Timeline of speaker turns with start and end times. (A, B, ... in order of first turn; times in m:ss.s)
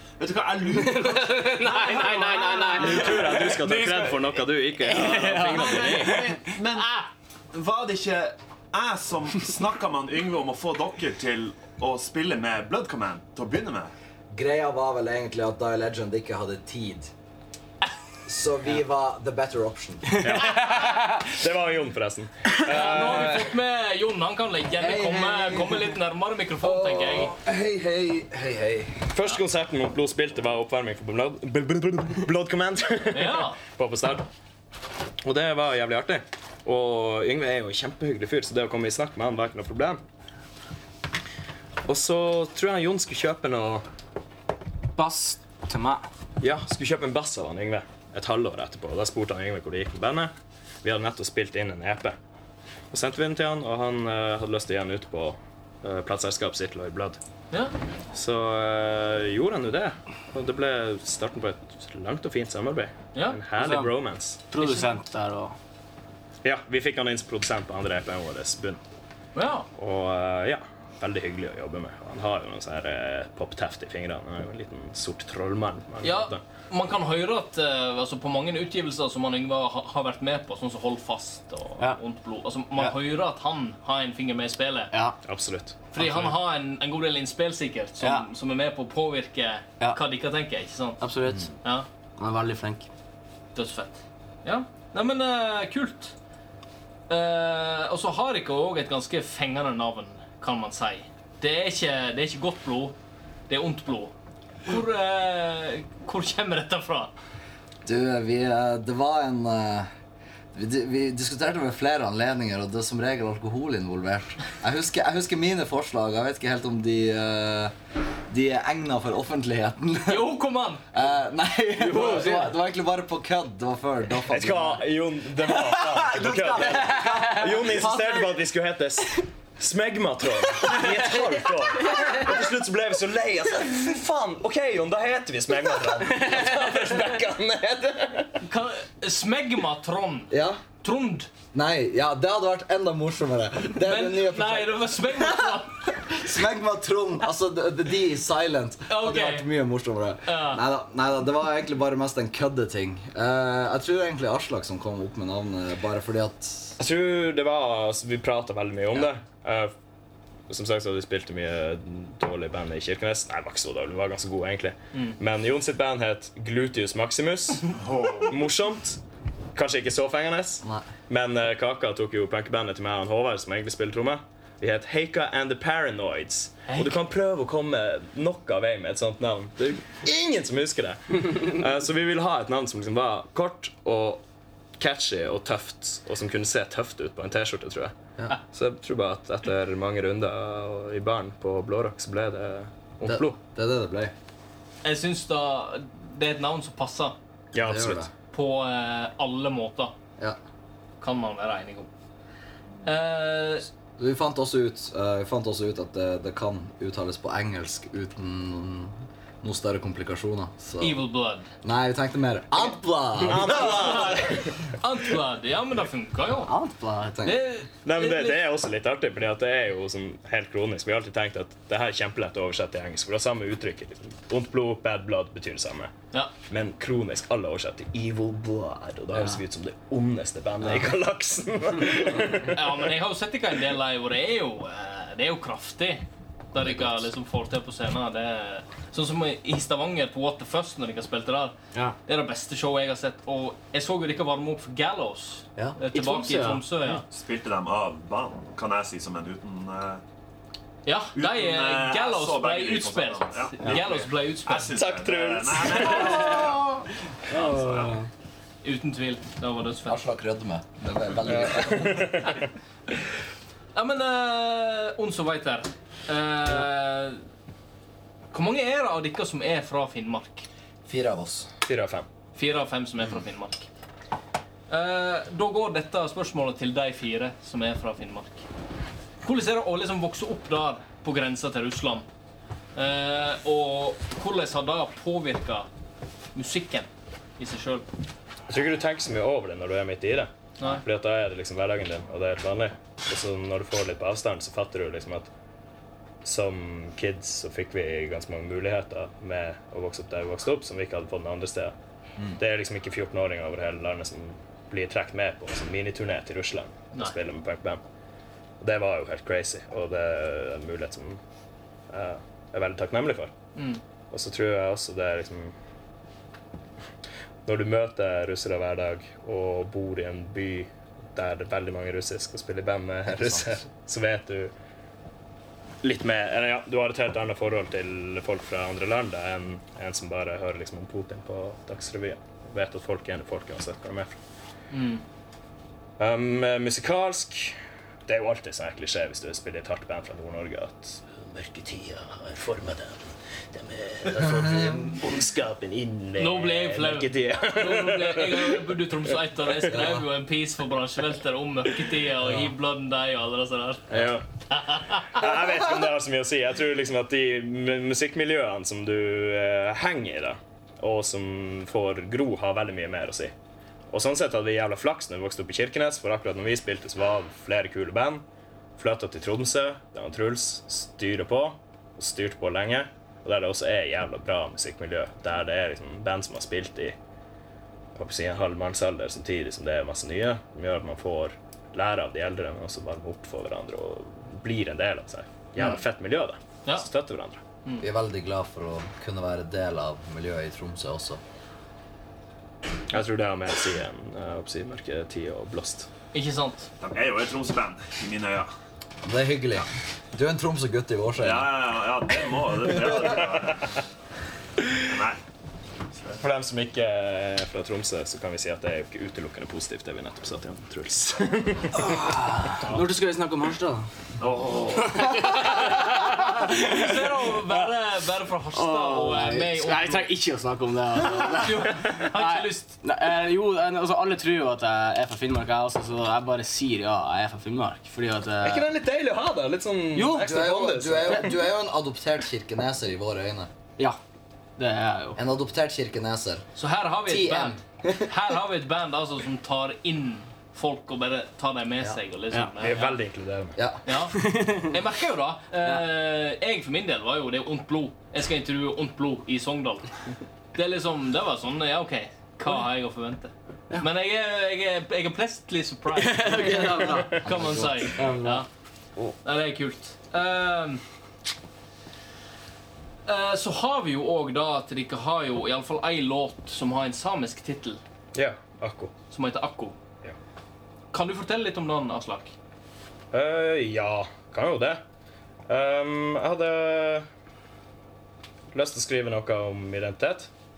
0:00.2-0:03.3 A
0:00.7-0:04.2 B
0:01.8-0:03.0 C
0:02.8-0:06.2 D
0:04.8-0:06.4 B
0:05.6-0:13.9 A
0:06.8-0:07.0 C
0:14.3-0:17.1 E
0:18.2-0:20.3 E
0:20.2-0:21.2 B
0:20.2-0:23.5 D
0:22.6-0:27.3 C
0:22.7-0:23.2 B
0:24.8-0:25.8 E
0:26.6-0:29.1 E
0:29.1-0:34.2 D
0:33.1-0:33.6 C
0:35.2-0:40.0 D
0:41.8-0:43.8 D
0:45.0-0:46.0 B
0:46.4-0:50.3 D
0:50.8-0:52.1 D
0:52.9-0:57.2 D
0:58.1-1:04.4 D
1:03.1-1:03.4 C
1:03.6-1:03.9 B
1:04.5-1:05.6 B
1:04.6-1:04.9 C
1:06.4-1:08.8 D
1:09.3-1:09.7 C
1:09.8-1:16.4 D
1:16.0-1:24.9 C
1:24.9-1:25.2 B
1:25.2-1:26.1 D
1:25.9-1:31.0 C
1:28.0-1:28.2 B
1:31.0-1:31.5 B
1:32.2-1:32.9 B
1:33.5-1:36.1 C
1:37.1-1:43.0 C
1:43.5-1:44.1 C
1:44.6-1:47.1 C
1:47.8-1:49.9 E
1:50.5-1:57.7 E
1:58.3-2:00.3 E
2:00.1-2:00.8 C
2:00.9-2:04.8 E
2:01.8-2:02.5 B
2:04.3-2:18.4 D
2:05.4-2:08.3 E
2:06.8-2:07.4 B
2:18.4-2:21.3 C
2:20.3-2:20.6 E
2:21.5-2:36.8 E
2:23.8-2:26.0 C
2:28.9-2:29.5 C
2:30.2-2:30.6 C
2:36.8-2:39.7 D
2:40.5-2:49.0 D
2:47.8-2:48.3 A
2:49.5-3:04.2 D
2:56.7-2:56.9 C
3:04.8-3:07.9 D
3:08.5-3:13.4 D
3:13.0-3:14.1 E
3:14.8-3:17.2 C
3:17.5-3:18.1 D
3:17.6-3:18.1 E
3:18.3-3:19.9 C
3:21.0-3:21.9 C
3:22.8-3:23.7 C
3:24.0-3:31.0 E
3:30.8-3:31.5 C
3:31.6-3:34.4 E
3:33.2-3:34.5 D
3:33.5-3:36.5 C
3:36.5-3:37.1 B
3:36.5-3:37.4 E
3:37.2-3:38.4 C
3:37.8-3:45.9 D
3:46.5-3:52.9 D
3:52.5-4:01.5 C
4:02.0-4:07.0 C
4:05.9-4:06.6 B
4:07.0-4:10.0 A
4:10.8-4:14.7 C
4:11.1-4:16.8 A
4:14.7-4:16.5 D
4:16.2-4:16.5 B
4:17.3-4:18.0 A
4:17.3-4:18.1 B
4:18.6-4:20.0 C
4:19.8-4:22.3 E
4:21.3-4:22.5 D
4:23.7-4:27.2 C
4:28.3-4:30.5 C
4:30.8-4:31.5 E
4:31.6-4:32.1 D
4:32.3-4:33.7 C
4:34.7-4:38.4 C
4:39.2-4:42.0 C
4:42.7-4:45.7 C
4:46.3-4:47.8 C
4:48.5-4:55.3 D
4:56.2-5:01.7 D
5:02.4-5:07.8 D
5:08.6-5:11.2 D
5:11.9-5:13.3 D
5:13.5-5:13.8 C
5:14.1-5:15.5 D
5:17.4-5:24.5 D
5:23.1-5:23.5 E
5:25.8-5:34.1 D
5:34.7-5:35.0 C
5:36.0-5:37.6 D
5:38.1-5:48.7 D
5:46.2-5:55.3 C
5:49.6-5:50.0 D
5:53.9-5:54.2 D
5:55.0-6:03.3 D
6:03.9-6:08.2 D
6:08.8-6:17.0 D
6:17.9-6:27.4 D
6:27.8-6:31.2 E
6:32.9-6:35.9 D
6:36.1-6:36.7 C
6:36.8-6:38.5 A
6:39.0-6:41.5 E
6:41.2-6:43.7 A
6:44.8-6:45.2 A
6:45.9-6:46.2 A
6:46.2-6:51.9 D
6:51.8-6:53.9 B
6:54.2-6:55.0 A
6:54.8-6:57.6 B
6:56.4-7:00.1 C
6:58.5-7:08.7 B
7:01.0-7:02.8 C
7:08.4-7:11.3 D
7:09.9-7:10.4 B
7:10.1-7:13.5 E
7:14.6-7:15.2 B
7:15.2-7:16.4 E
7:16.6-7:23.0 C
7:17.1-7:17.9 E
7:22.6-7:23.6 D
7:23.6-7:23.8 E
7:23.8-7:29.9 C
7:24.2-7:24.7 B
7:30.5-7:38.5 C
7:36.0-7:37.2 B
7:36.4-7:38.0 E
7:36.8-7:37.2 D
7:37.9-7:38.4 B
7:39.2-7:40.8 C
7:43.0-7:47.8 C
7:48.1-7:48.9 D
7:49.1-7:49.8 C
7:50.9-7:52.3 C
7:53.1-7:54.8 D
7:55.5-7:57.0 D
7:58.5-8:00.3 D